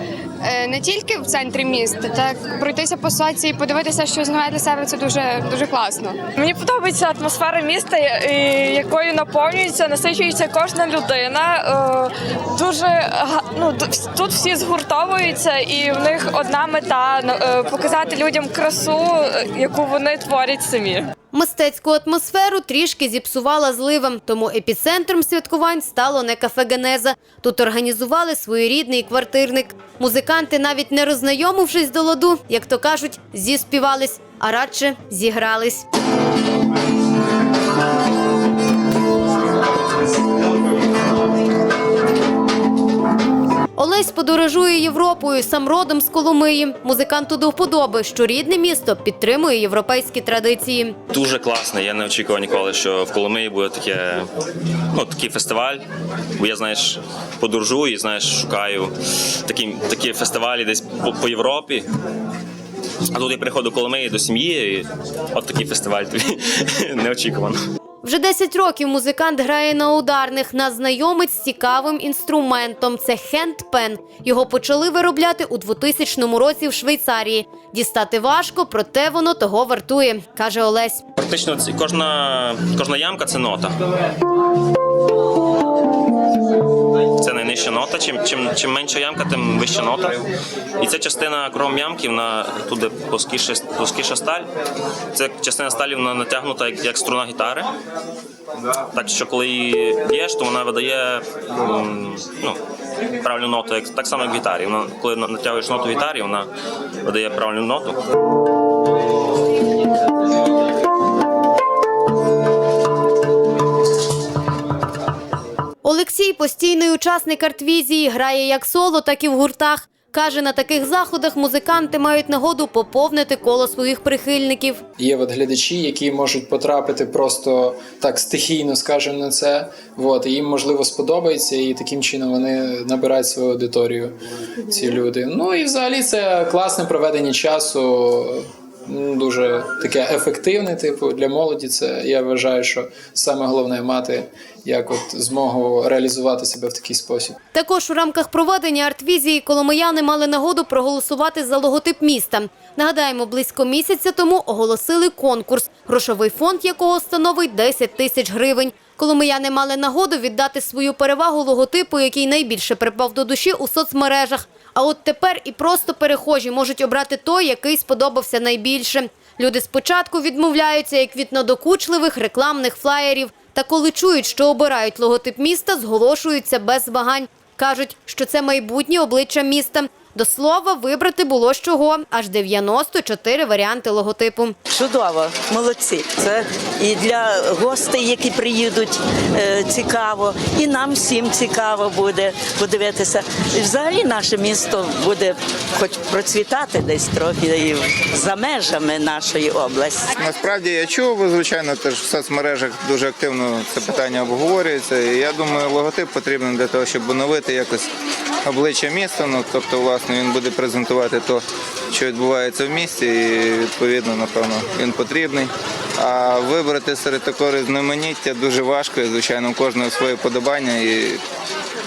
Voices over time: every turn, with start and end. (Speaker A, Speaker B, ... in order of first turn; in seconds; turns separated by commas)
Speaker A: 0.6-1.9, Speaker A: 2.7-3.5, Speaker A: 4.1-6.0, Speaker B: 6.3-21.1, Speaker C: 21.3-35.9, Speaker C: 43.8-51.0, Speaker D: 51.1-54.2, Speaker D: 54.9-55.8, Speaker D: 56.4-58.9, Speaker D: 59.5-61.9, Speaker D: 63.1-67.6, Speaker C: 68.0-81.0, Speaker D: 81.2-83.7, Speaker D: 87.2-90.2, Speaker D: 90.8-94.5, Speaker D: 95.1-97.7, Speaker D: 98.9-102.6, Speaker D: 103.2-106.5, Speaker D: 107.0-108.0, Speaker C: 115.8-124.8, Speaker E: 125.0-134.2, Speaker E: 134.7-147.3, Speaker C: 147.5-184.6, Speaker F: 184.7-200.1, Speaker G: 200.2-207.9, Speaker G: 208.4-221.2